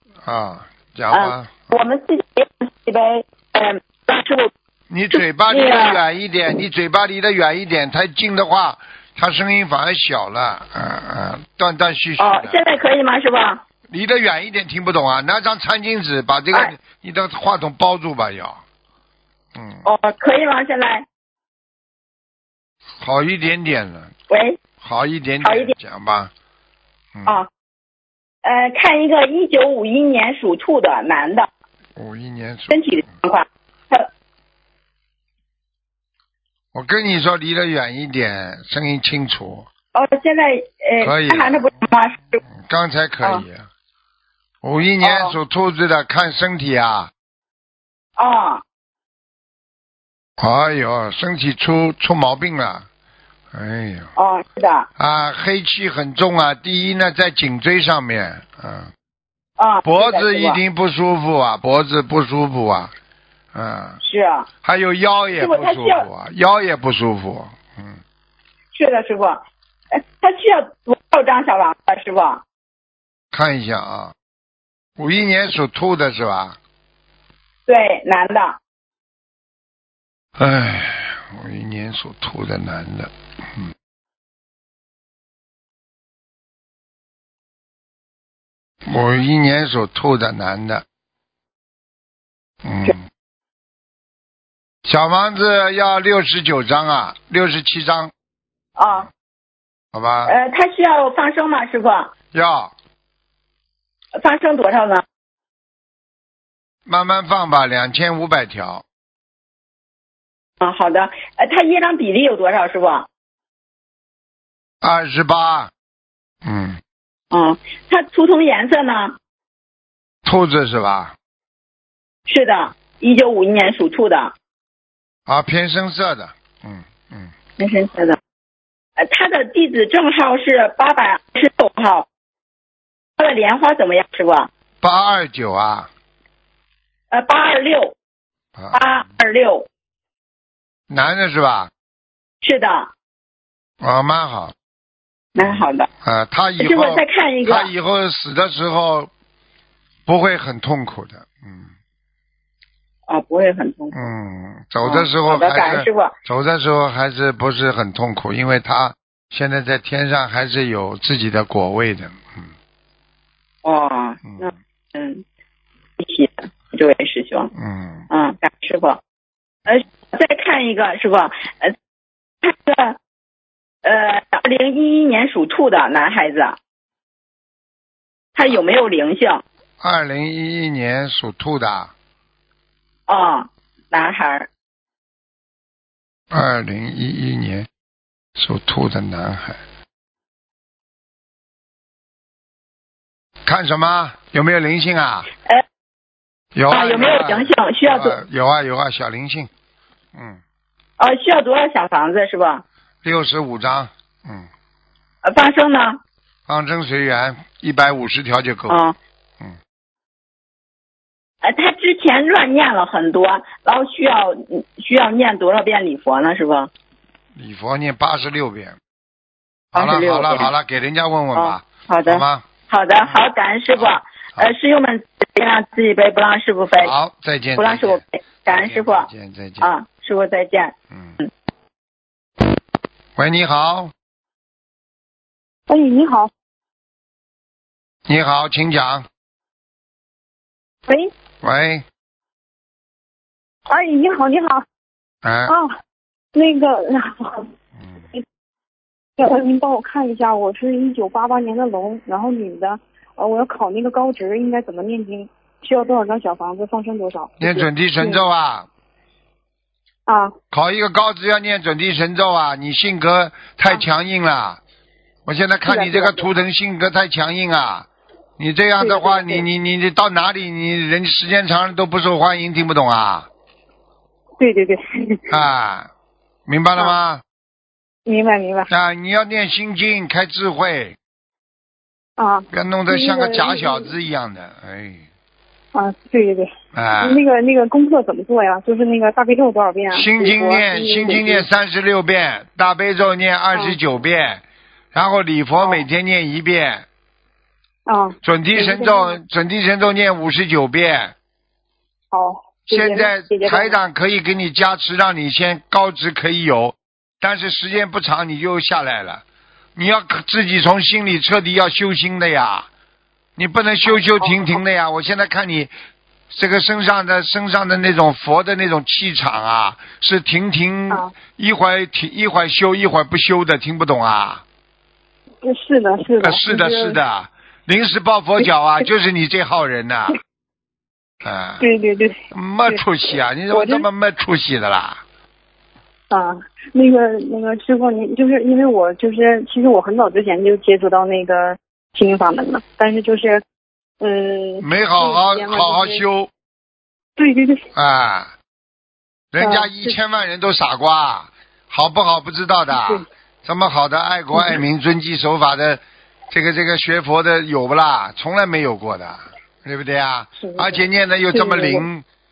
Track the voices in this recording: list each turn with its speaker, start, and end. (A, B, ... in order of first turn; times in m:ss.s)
0:00.2-0:01.7 A
0:01.1-0:04.5 B
0:04.9-0:12.6 A
0:05.1-0:06.0 B
0:12.2-0:13.6 B
0:13.9-0:18.6 A
0:19.5-0:19.8 A
0:19.8-0:21.0 B
0:23.0-0:24.1 A
0:24.3-0:24.6 B
0:24.8-0:26.3 A
0:25.4-0:25.7 B
0:27.1-0:27.4 A
0:28.4-0:31.5 B
0:32.0-0:32.8 A
0:32.7-0:34.1 B
0:36.7-0:39.7 A
0:39.9-0:42.4 B
0:41.0-0:41.6 A
0:42.6-0:43.7 A
0:44.6-0:47.1 A
0:45.0-0:45.4 B
0:48.2-0:48.6 B
0:50.4-0:52.9 A
0:53.5-0:54.1 A
0:54.2-0:54.9 B
0:55.0-0:58.9 A
0:59.6-1:00.6 B
0:59.8-1:02.9 A
1:03.5-1:04.0 A
1:04.0-1:04.5 B
1:04.6-1:08.0 A
1:05.3-1:06.1 B
1:08.7-1:12.4 B
1:13.3-1:14.1 A
1:15.0-1:16.6 A
1:17.7-1:18.6 B
1:20.4-1:23.7 A
1:28.8-1:30.8 A
1:32.6-1:33.0 A
1:34.8-1:38.1 A
1:38.8-1:39.1 B
1:39.9-1:40.3 A
1:40.2-1:42.1 B
1:42.3-1:42.7 A
1:44.2-1:45.0 B
1:46.8-1:48.8 A
1:50.6-1:53.1 B
1:54.8-1:55.7 A
1:56.4-1:56.8 A
1:57.3-1:59.2 B
2:00.2-2:01.1 A
2:02.3-2:04.3 B
2:05.3-2:07.3 A
2:07.6-2:08.2 B
2:09.0-2:12.0 B
2:13.2-2:14.5 B
2:14.8-2:15.9 A
2:17.1-2:17.9 B
2:18.6-2:18.8 A
2:18.7-2:19.6 B
2:20.9-2:21.7 A
2:22.4-2:22.9 B
2:23.8-2:24.5 A
2:25.3-2:25.9 B
2:25.4-2:29.1 A
2:26.6-2:27.7 B
2:30.0-2:31.7 A
2:33.1-2:33.9 B
2:33.9-2:42.5 A
2:34.8-2:36.1 B
2:43.6-2:45.2 B
2:46.0-2:47.5 B
2:47.5-2:48.1 A
2:48.1-2:49.0 B
2:49.6-2:51.7 B
2:52.4-2:53.0 B
2:53.8-2:56.6 B
2:58.3-2:59.4 B
2:59.8-3:01.9 A
3:03.1-3:04.5 B
3:06.3-3:07.7 A
3:08.4-3:09.6 A
3:13.4-3:15.3 A
3:16.5-3:19.5 A
3:16.7-3:18.2 B
3:20.1-3:20.4 A
3:21.0-3:22.6 B
3:23.0-3:24.5 A
3:25.2-3:26.0 B
3:26.5-3:28.8 A
3:28.7-3:29.0 B
3:31.4-3:36.7 B
3:37.4-3:38.8 A
3:39.7-3:40.5 B
3:39.7-3:42.5 A
3:41.3-3:46.9 B
3:43.8-3:44.5 A
3:46.8-3:49.7 A
3:47.6-3:49.1 B
3:49.6-3:51.3 B
3:53.2-3:53.9 A
3:55.7-3:56.3 C
3:58.0-3:59.1 A
4:01.4-4:01.8 A
4:03.7-4:04.6 C
4:05.2-4:05.5 A
4:05.5-4:05.7 C
4:06.3-4:07.5 C
4:09.2-4:18.2 C
4:17.4-4:18.7 A
4:20.1-4:20.3 C
4:20.5-4:24.6 A
4:25.2-4:27.9 A
4:25.6-4:26.3 C
4:28.4-4:33.3 A
4:28.8-4:29.4 C
4:34.4-4:35.3 C
4:35.3-4:35.9 A
4:36.5-4:37.2 A
4:38.0-4:38.7 C
4:38.7-4:41.0 A
4:42.2-4:43.9 C
4:42.5-4:45.0 A
4:45.7-4:51.4 C
4:46.7-4:47.2 A
4:49.9-4:54.4 A
4:54.9-4:56.8 A
4:57.8-4:59.2 C
4:58.2-5:01.1 A
5:02.1-5:03.8 C
5:02.7-5:09.2 A
5:09.8-5:12.7 A
5:13.4-5:15.7 A
5:13.8-5:14.5 C
5:16.3-5:24.4 A
5:25.4-5:27.0 C
5:26.2-5:30.2 A
5:31.2-5:31.6 A
5:31.6-5:32.8 C
5:32.3-5:35.0 A
5:33.5-5:33.8 C
5:36.1-5:43.4 C
5:44.0-5:46.0 C
5:44.6-5:46.3 A
5:47.2-5:47.6 C
5:47.7-5:48.3 A
5:49.3-6:02.0 A
5:49.4-5:49.9 C
5:52.7-5:53.0 C
5:54.3-5:54.6 C
6:00.4-6:01.8 C